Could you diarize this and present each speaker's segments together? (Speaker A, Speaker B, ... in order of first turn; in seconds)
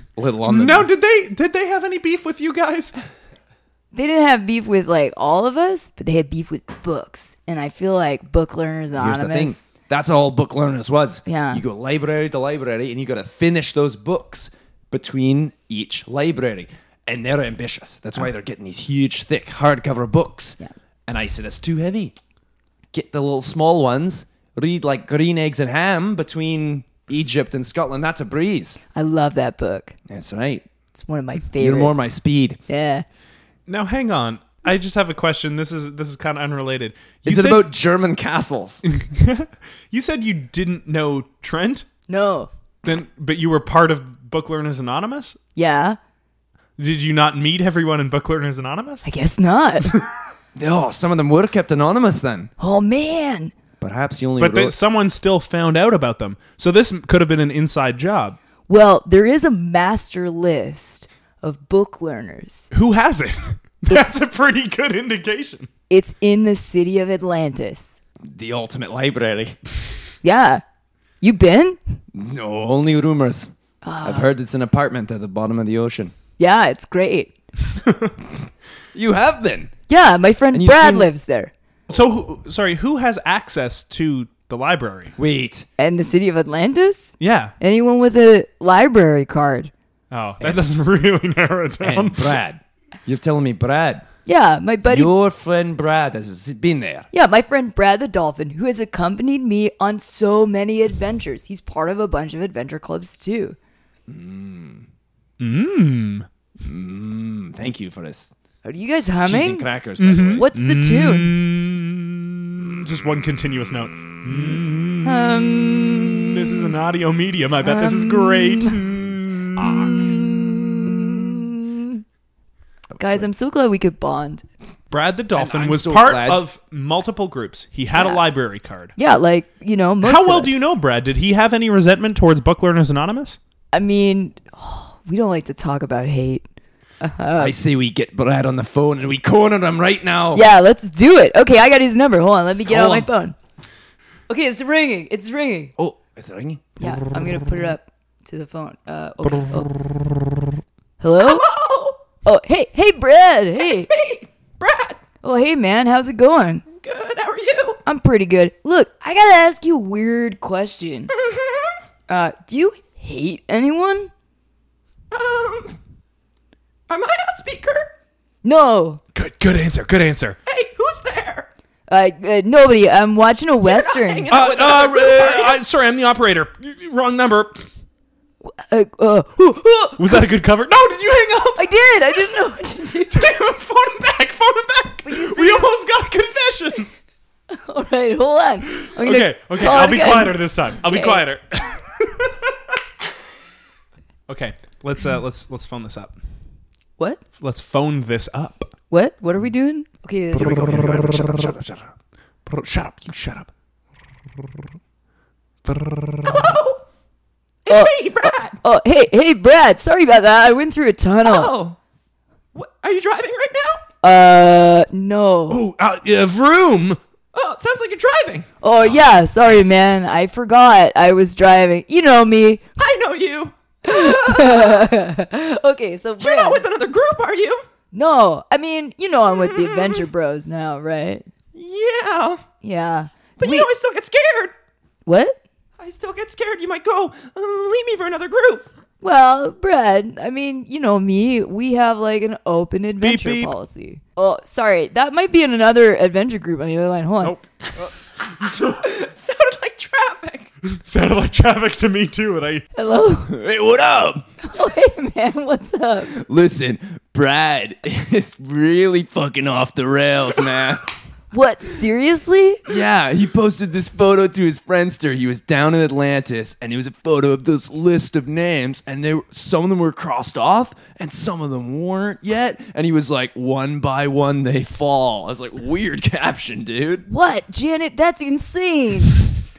Speaker A: 0.2-0.9, 8.9-22.1, 22.9-28.8, 30.1-30.7, 31.6-32.6, 37.2-38.8, 50.6-52.5, 53.8-54.8, 68.2-69.6, 72.1-76.1, 78.9-79.7, 80.5-81.1, 85.2-85.7, 91.8-94.0, 94.9-97.1, 104.1-104.9, 106.6-108.3, 109.2-110.4, 114.2-114.6, 119.6-120.6, 122.9-123.3, 125.3-126.4, 137.4-140.5, 142.7-143.1, 145.8-146.8, 151.2-152.0, 153.6-155.0, 156.7-157.8, 161.1-161.8, 165.1-165.8, 166.9-167.9, 170.5-171.5, 173.6-175.6, 200.3-201.9, 206.2-206.8, 207.7-208.6, 211.2-211.8, 212.5-213.8, 217.3-218.5, 222.8-224.9, 226.2-227.6, 229.4-230.1, 231.5-232.4, 233.4-234.5, 235.8-238.7, 248.3-250.5, 253.3-254.3, 256.1-260.9, 262.7-277.1
Speaker B: 0.5-3.0, 33.7-37.7, 38.8-41.9, 42.8-45.4, 46.8-49.1, 54.4-58.4, 62.7-65.7, 77.8-78.1, 81.9-85.1, 87.2-87.5, 90.1-92.4, 105.4-106.3, 110.0-120.6, 124.9-128.9, 130.0-133.4, 169.1-170.4, 174.3-177.7, 180.0-181.7, 183.1-186.9, 188.7-192.6, 194.3-196.2, 197.4-198.7, 200.4-201.6, 202.5-203.5, 205.7-206.4, 215.5-217.0, 243.0-243.5, 250.6-252.7
Speaker C: 3.9-9.7, 11.3-11.6, 28.9-30.0, 30.9-32.0, 32.7-33.0, 42.1-42.5, 45.6-46.0, 49.1-49.9, 52.6-53.5, 58.7-62.7, 63.9-64.2, 65.9-68.0, 70.2-70.6, 71.2-71.8, 73.8-74.3, 76.4-77.3, 79.9-81.5, 85.8-89.7, 94.3-95.1, 97.1-103.6, 108.6-109.7, 110.4-111.4, 115.0-116.3, 117.6-118.8, 119.8-122.0, 123.0-124.4, 128.0-128.2, 129.0-130.5, 133.7-136.4, 137.0-137.6, 140.3-143.4, 144.3-145.7, 146.8-149.7, 151.0-151.5, 152.2-153.9, 155.2-156.7, 157.9-161.1, 162.1-164.1, 168.4-169.0, 171.9-174.3, 178.4-180.3, 181.6-183.3, 185.1-185.7, 187.5-191.2, 198.9-200.7, 207.7-211.5, 214.0-215.6, 218.6-222.6, 223.8-226.6, 227.9-231.3, 232.6-233.7, 235.1-235.4, 239.0-247.4, 252.8-253.4, 254.4-256.1, 261.3-262.7, 277.1-279.3